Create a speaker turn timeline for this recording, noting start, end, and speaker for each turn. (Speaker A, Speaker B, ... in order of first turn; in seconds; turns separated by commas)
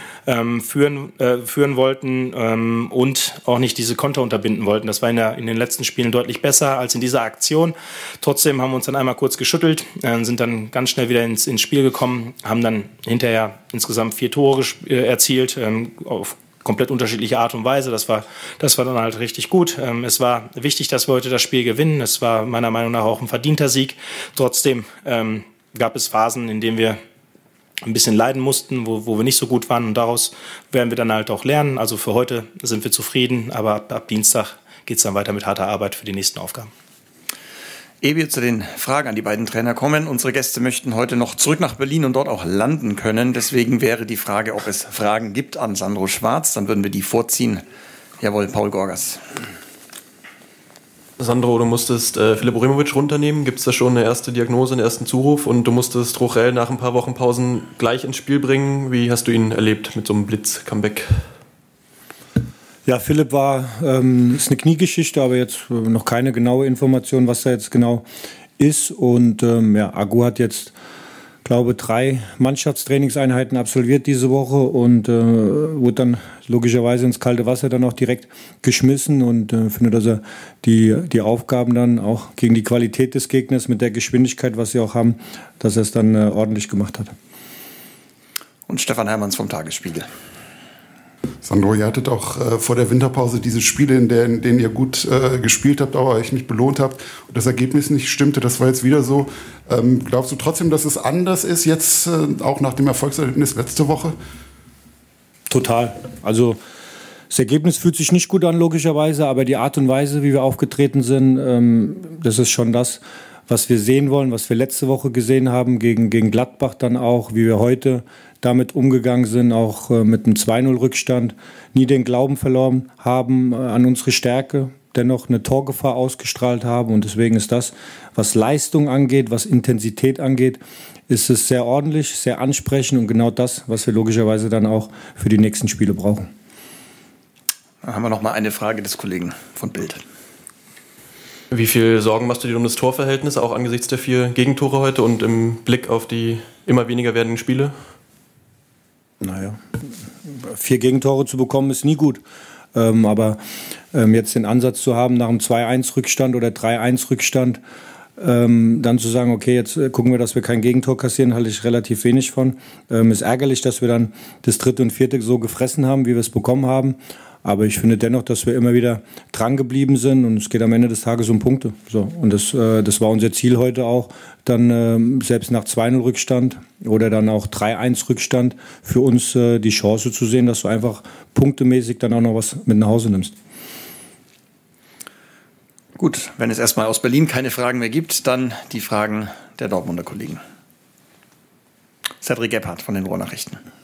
Speaker A: 0.3-27.0, Speaker A: 27.8-36.7, Speaker B: 38.0-47.6, Speaker B: 48.2-49.2, Speaker C: 51.2-61.2, Speaker D: 62.9-68.0, Speaker D: 68.6-70.7, Speaker D: 71.4-87.1, Speaker B: 88.7-90.1, Speaker E: 91.4-104.1, Speaker D: 105.5-106.6, Speaker D: 107.3-136.3, Speaker B: 137.8-140.0, Speaker C: 141.5-147.7, Speaker D: 149.2-149.6, Speaker D: 150.2-152.2, Speaker D: 152.7-153.4, Speaker D: 153.9-157.6, Speaker D: 158.2-183.3, Speaker B: 186.0-190.4, Speaker B: 192.2-193.6